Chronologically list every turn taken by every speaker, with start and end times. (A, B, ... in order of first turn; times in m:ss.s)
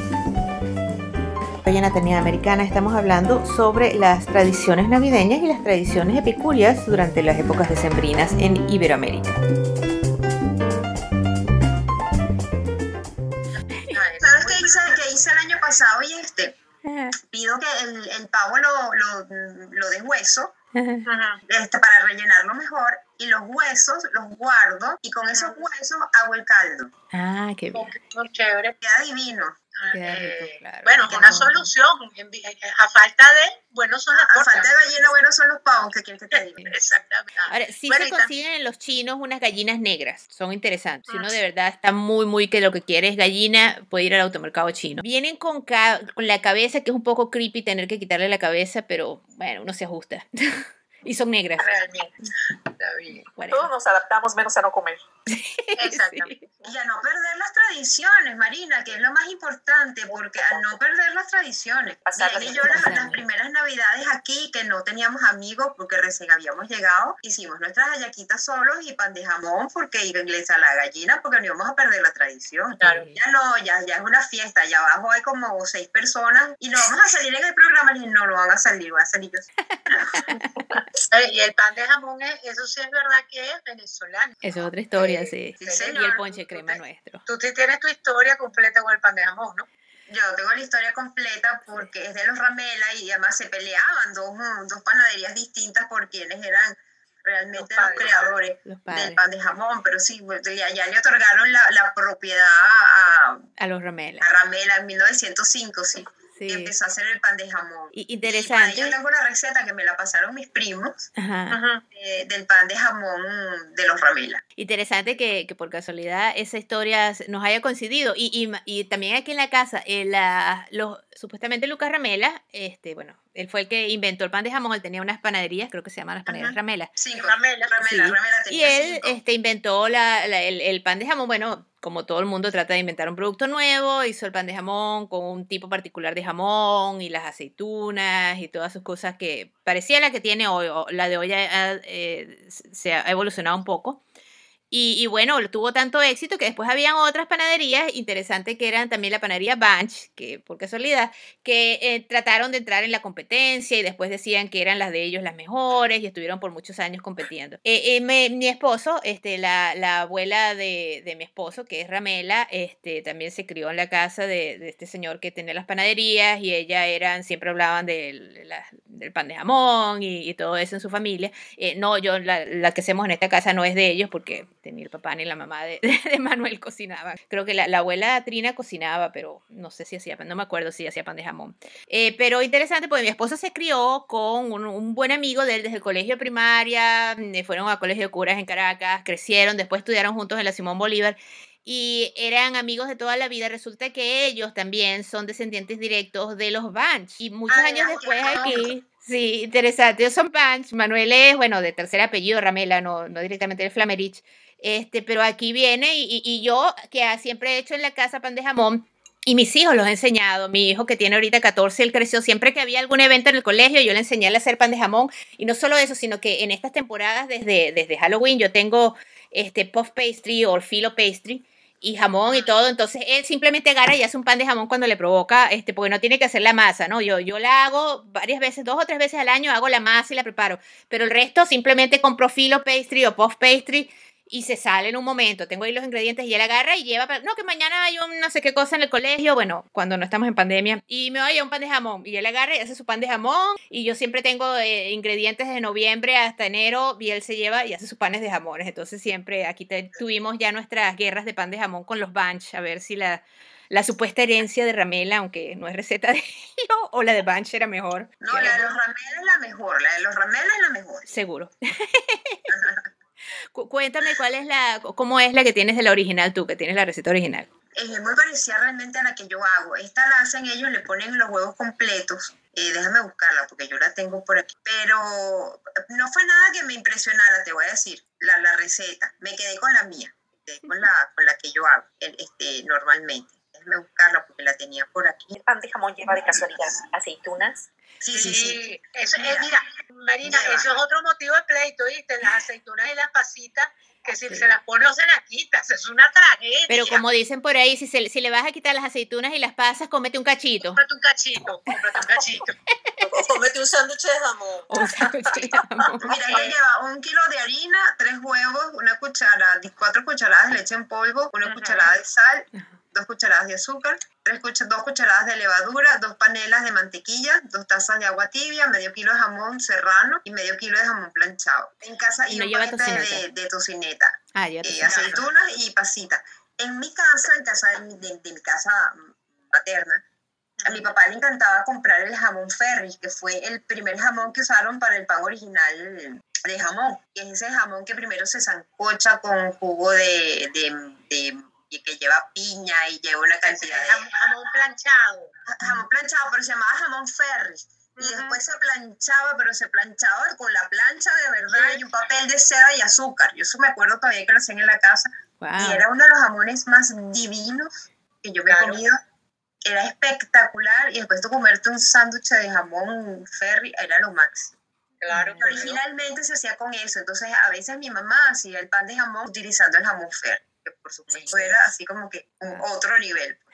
0:01.6-0:09.4 A
0:13.6-0:15.0 B
0:14.2-0:16.6 C
0:16.8-0:17.2 A
0:17.2-0:20.5 C
0:20.7-0:21.0 A
0:21.0-0:21.4 B
0:21.4-0:26.9 C
0:27.1-0:27.9 A
0:27.7-0:28.8 B
0:28.8-0:29.6 C
0:29.8-0:35.1 B
0:29.9-0:31.7 A
0:34.1-0:36.8 C
0:36.3-0:38.3 B
0:37.5-0:51.7 A
0:41.1-0:41.3 B
0:51.6-0:52.1 B
0:52.8-0:53.2 B
0:53.2-0:53.7 A
0:53.5-0:55.0 D
0:55.3-0:56.4 A
0:55.8-0:56.3 B
0:56.6-1:19.5 C
1:00.1-1:00.7 D
1:02.0-1:03.0 D
1:02.6-1:03.2 A
1:12.8-1:13.2 A
1:19.7-1:20.4 A
1:21.1-1:24.4 B
1:24.4-1:27.2 A
1:25.0-1:26.2 C
1:25.6-1:29.7 B
1:30.1-1:43.4 C
1:37.6-1:38.2 B
1:38.6-1:39.2 A
1:43.6-1:44.3 A
1:44.2-1:51.1 C
1:46.3-1:46.7 A
1:47.9-1:49.0 A
1:51.2-1:51.6 A
1:51.5-1:51.8 B
1:51.9-1:54.4 C
1:54.6-2:06.9 A
2:06.3-2:09.2 C
2:07.2-2:07.7 B
2:07.8-2:24.0 A
2:24.7-4:18.6 A
3:17.5-3:18.7 B
3:18.0-3:18.7 C
3:42.3-3:42.5 B
4:18.2-4:21.1 C
4:21.1-4:22.5 A
4:22.5-4:22.8 C
4:23.5-4:27.5 A
4:27.8-4:45.3 C
4:45.3-4:47.7 D
4:46.2-4:46.4 C
4:48.0-4:49.6 C
4:48.1-4:57.0 B
4:50.2-4:50.7 C
4:56.7-5:00.8 A
5:00.7-5:02.6 B
5:03.0-5:05.5 E
5:04.7-5:06.2 A
5:06.0-5:30.0 C
5:06.3-5:06.5 B
5:11.4-5:11.9 B
5:22.3-5:23.2 A
5:24.3-5:25.2 A
5:24.9-5:25.1 B
5:30.6-5:30.9 B
5:30.6-5:44.0 C
5:43.4-5:45.3 B
5:45.5-5:57.7 C
5:48.0-5:48.4 B
5:51.5-5:51.8 B
5:55.4-5:55.8 A
5:58.2-5:59.0 C
5:58.5-5:58.8 B
5:59.6-6:04.5 C
6:05.0-6:05.8 B
6:05.1-6:05.5 A
6:05.4-6:13.4 C
6:11.1-6:11.5 B